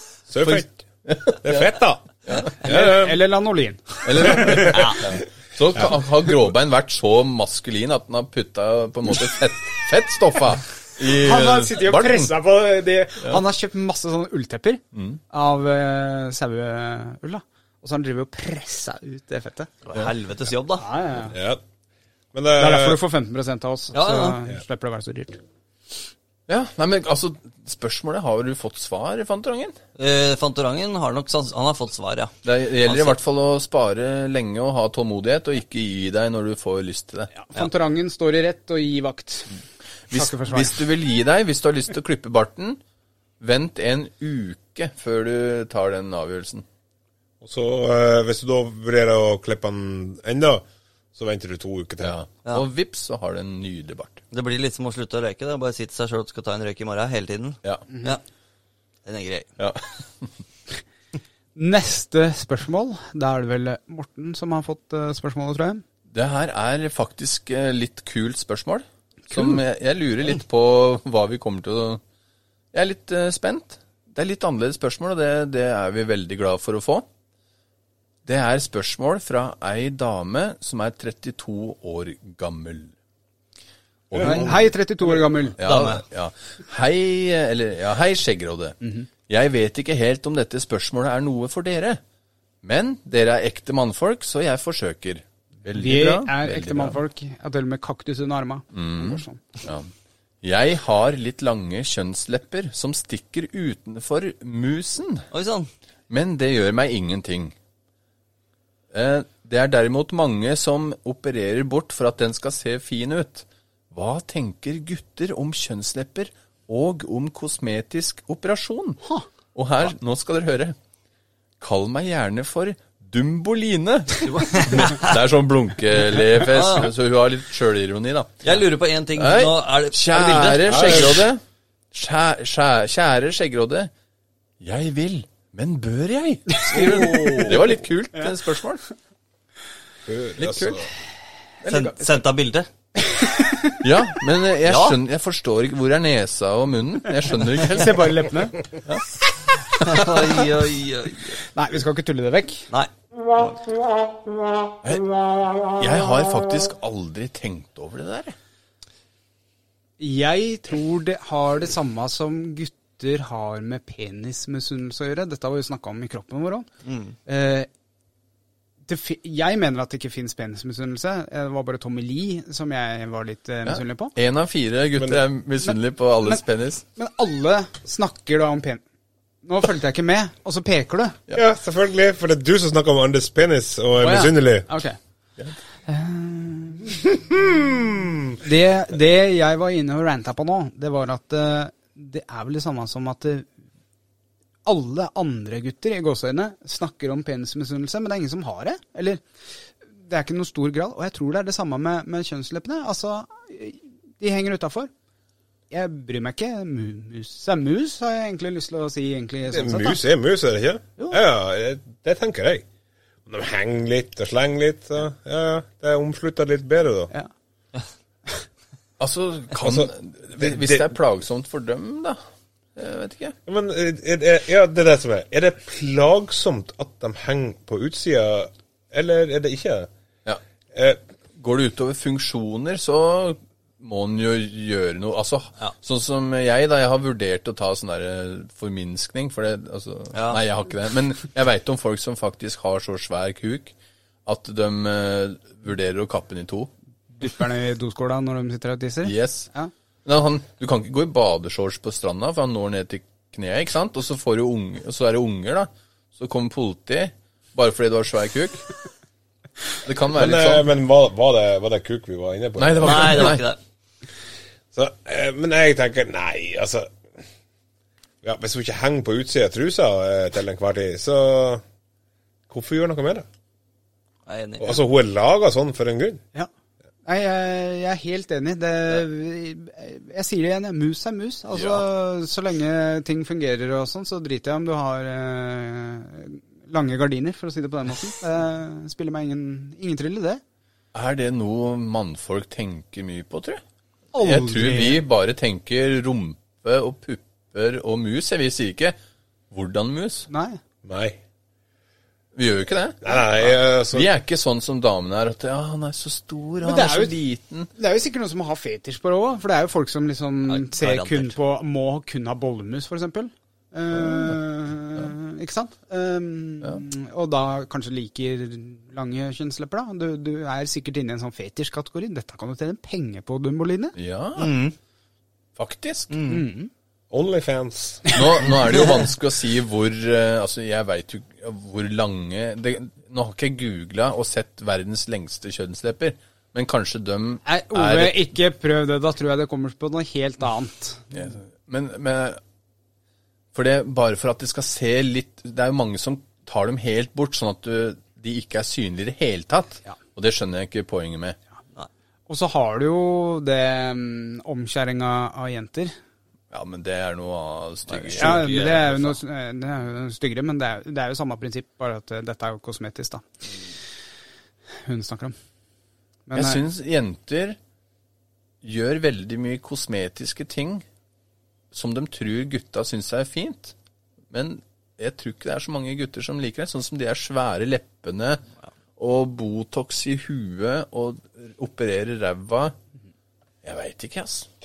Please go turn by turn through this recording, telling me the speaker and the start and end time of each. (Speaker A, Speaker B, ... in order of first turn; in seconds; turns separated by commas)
Speaker A: 0.3-3.2, Speaker B: 1.1-1.7, Speaker B: 2.2-2.7, Speaker C: 2.6-5.0, Speaker B: 4.0-12.3, Speaker A: 4.4-5.2, Speaker C: 11.1-19.7, Speaker B: 14.9-15.2, Speaker D: 19.9-20.8, Speaker C: 20.8-21.4, Speaker A: 21.3-21.6, Speaker A: 22.3-23.0, Speaker C: 22.6-25.4, Speaker D: 23.9-24.4, Speaker B: 26.5-29.8, Speaker D: 30.0-33.2, Speaker B: 32.4-37.3, Speaker C: 37.3-39.6, Speaker B: 40.1-42.8, Speaker C: 40.1-40.8, Speaker B: 43.4-46.7, Speaker A: 47.4-52.2, Speaker B: 52.0-54.2, Speaker D: 54.3-58.2, Speaker C: 57.9-58.2, Speaker D: 59.0-59.5, Speaker B: 59.6-60.3, Speaker C: 61.5-65.8, Speaker B: 66.1-72.0, Speaker C: 69.3-69.6, Speaker B: 72.7-77.1, Speaker B: 78.3-82.9, Speaker B: 84.1-84.7, Speaker A: 84.1-84.5, Speaker C: 84.2-85.6, Speaker B: 85.6-92.0, Speaker D: 85.6-86.0, Speaker C: 88.8-89.1, Speaker B: 92.6-97.0, Speaker C: 95.8-99.4, Speaker B: 98.7-99.9, Speaker B: 100.4-105.3, Speaker D: 105.3-105.7, Speaker B: 106.1-107.5, Speaker B: 108.9-120.8, Speaker B: 121.6-128.5, Speaker D: 124.2-125.2, Speaker D: 126.5-126.9, Speaker D: 128.4-131.3, Speaker B: 129.2-133.9, Speaker A: 130.7-131.2, Speaker B: 134.6-138.8, Speaker C: 136.5-138.4, Speaker A: 140.1-140.9, Speaker B: 140.4-140.8, Speaker D: 141.7-142.7, Speaker C: 141.7-142.1, Speaker C: 143.0-143.8, Speaker B: 143.8-148.3, Speaker D: 144.7-145.0, Speaker C: 147.6-148.7, Speaker B: 149.8-150.4, Speaker D: 149.8-151.4, Speaker C: 151.5-152.7, Speaker D: 152.7-153.6, Speaker B: 155.8-158.4, Speaker C: 160.0-166.7, Speaker D: 166.8-167.2, Speaker C: 167.3-167.7, Speaker C: 168.9-174.2, Speaker B: 173.7-176.8, Speaker A: 175.0-175.2, Speaker C: 175.6-176.4, Speaker C: 177.0-178.8, Speaker C: 179.4-181.2, Speaker A: 181.3-184.7, Speaker C: 184.0-185.0, Speaker C: 185.9-187.3, Speaker A: 187.4-188.3, Speaker C: 188.4-193.5, Speaker C: 194.7-199.2, Speaker C: 200.0-204.9, Speaker C: 205.7-210.0, Speaker A: 209.5-212.7, Speaker A: 213.3-217.1, Speaker B: 219.0-222.2, Speaker A: 219.6-220.9, Speaker B: 222.8-223.4, Speaker A: 223.5-229.9, Speaker A: 230.7-231.0, Speaker B: 231.4-243.8, Speaker D: 240.1-240.4, Speaker B: 244.3-246.7, Speaker C: 247.2-249.7, Speaker B: 249.0-249.5, Speaker B: 250.1-258.7, Speaker B: 259.8-260.7, Speaker A: 260.1-263.4, Speaker B: 262.6-263.4, Speaker D: 262.8-263.6, Speaker A: 264.7-267.0, Speaker A: 268.2-271.6, Speaker A: 272.5-273.3, Speaker D: 274.3-274.8, Speaker A: 274.6-276.2, Speaker C: 277.1-290.4, Speaker B: 281.5-281.9, Speaker B: 290.9-293.6, Speaker C: 294.1-295.0, Speaker B: 294.2-299.0, Speaker B: 299.5-300.3, Speaker C: 300.3-300.6, Speaker A: 300.8-301.2, Speaker B: 302.4-307.7, Speaker A: 303.0-304.1, Speaker C: 306.6-307.2, Speaker C: 307.8-323.9, Speaker D: 310.5-311.4, Speaker B: 314.0-314.4, Speaker B: 324.0-324.6, Speaker D: 324.4-324.8, Speaker B: 325.6-326.1, Speaker D: 326.1-326.4, Speaker C: 326.3-326.7, Speaker A: 327.1-328.1, Speaker C: 328.1-329.0, Speaker B: 328.1-338.3, Speaker C: 337.4-341.1, Speaker B: 341.1-342.4, Speaker B: 343.5-351.4, Speaker C: 352.3-355.9, Speaker B: 356.5-358.7, Speaker D: 357.9-359.2, Speaker C: 358.1-363.3, Speaker C: 364.9-365.4, Speaker C: 366.3-366.6, Speaker B: 366.4-367.6, Speaker B: 368.6-370.9, Speaker B: 371.7-373.7, Speaker B: 374.3-378.4, Speaker B: 379.0-382.7, Speaker B: 383.6-384.5